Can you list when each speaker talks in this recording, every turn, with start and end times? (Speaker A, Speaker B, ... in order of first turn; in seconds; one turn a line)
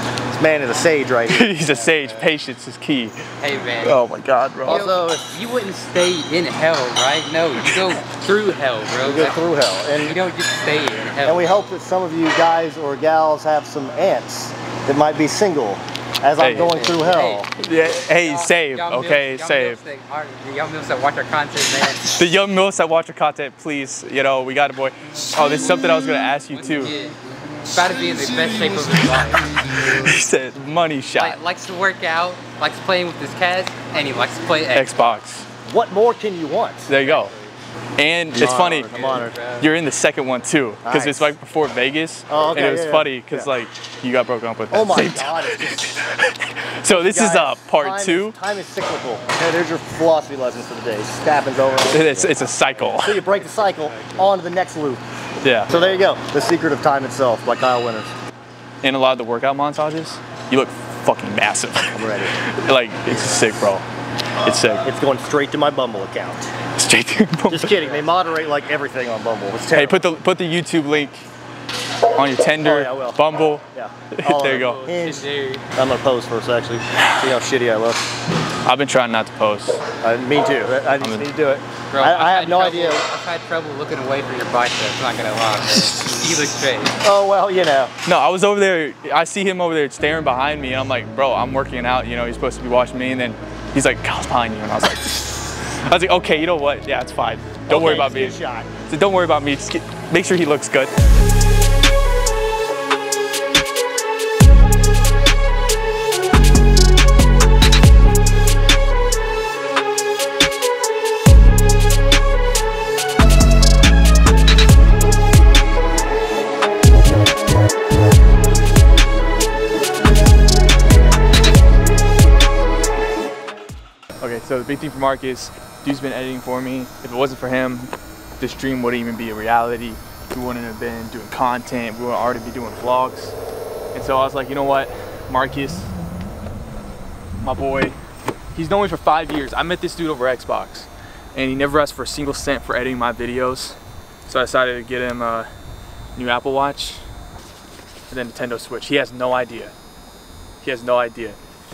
Speaker A: 0.3-1.5
Speaker B: 1.3-3.2
Speaker C: 1.6-2.2
Speaker C: 3.4-4.0
Speaker B: 3.8-4.9
Speaker A: 4.6-5.3
Speaker C: 4.6-9.4
Speaker A: 9.0-10.2
Speaker C: 10.0-11.6
Speaker A: 11.2-17.5
Speaker B: 16.4-16.8
Speaker C: 16.6-22.1
Speaker B: 17.6-19.8
Speaker B: 22.1-26.9
Speaker C: 26.5-30.1
Speaker B: 29.6-31.4
Speaker C: 31.1-35.0
Speaker B: 34.7-35.4
Speaker A: 35.6-36.9
Speaker B: 36.9-37.3
Speaker C: 37.0-37.5
Speaker B: 38.0-48.4
Speaker A: 38.3-39.4
Speaker C: 38.8-39.6
Speaker A: 40.8-41.4
Speaker A: 42.3-43.5
Speaker A: 44.7-46.0
Speaker A: 46.9-55.0
Speaker B: 51.9-53.2
Speaker B: 55.4-55.7
Speaker A: 55.7-58.1
Speaker B: 58.8-63.8
Speaker A: 61.9-62.4
Speaker B: 64.4-64.8
Speaker A: 64.8-66.5
Speaker B: 66.7-67.7
Speaker A: 67.5-70.0
Speaker C: 67.8-68.1
Speaker B: 69.7-71.2
Speaker B: 72.1-74.8
Speaker A: 72.6-78.0
Speaker C: 74.5-75.6
Speaker B: 77.0-77.3
Speaker B: 78.6-79.8
Speaker A: 80.0-83.0
Speaker B: 81.0-81.3
Speaker C: 81.9-87.0
Speaker A: 87.0-87.9
Speaker B: 88.0-101.0
Speaker A: 97.7-98.7
Speaker B: 124.2-133.3
Speaker B: 133.9-135.9
Speaker B: 137.4-138.0
Speaker B: 138.5-145.5
Speaker B: 146.1-147.1
Speaker B: 148.1-149.7
Speaker B: 150.6-151.4